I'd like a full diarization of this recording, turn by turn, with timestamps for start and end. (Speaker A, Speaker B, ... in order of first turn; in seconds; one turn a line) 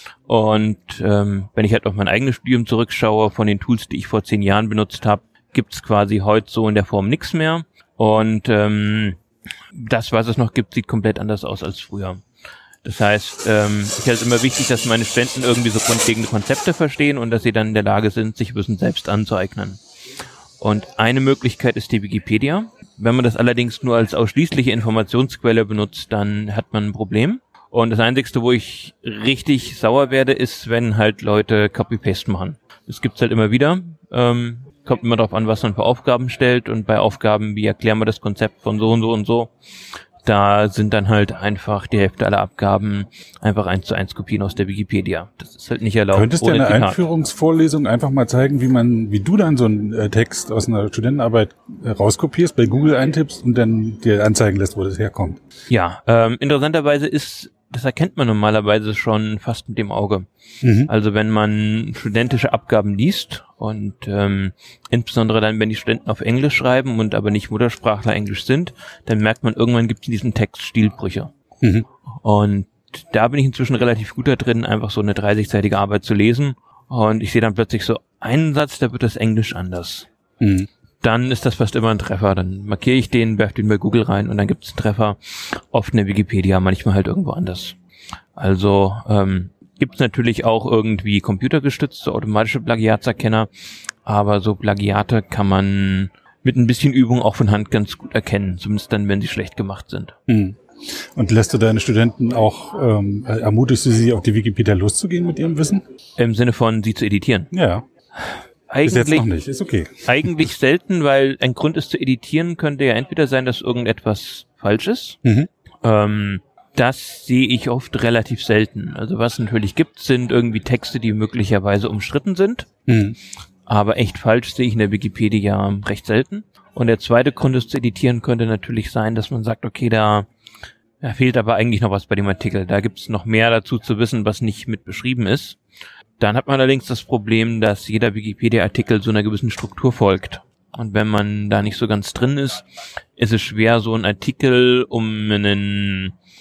Speaker A: 0.3-9.2
Speaker A: 9.7-12.2
Speaker A: 12.8-19.8
Speaker A: 20.6-39.5
Speaker A: 40.2-47.0
Speaker B: 46.1-55.4
Speaker A: 55.7-60.3
Speaker B: 60.6-60.9
Speaker A: 60.9-71.3
Speaker A: 72.2-80.1
Speaker B: 80.4-80.7
Speaker A: 81.0-87.8
Speaker A: 88.4-93.5
Speaker A: 94.0-100.1
Speaker B: 100.3-105.8
Speaker A: 106.2-107.5
Speaker B: 107.5-107.9
Speaker A: 108.2-109.2
Speaker B: 108.8-110.5
Speaker A: 110.0-115.2
Speaker A: 115.8-122.7
Speaker B: 122.9-123.2
Speaker A: 123.7-130.3
Speaker A: 131.0-135.6
Speaker A: 136.2-142.6
Speaker A: 143.2-146.2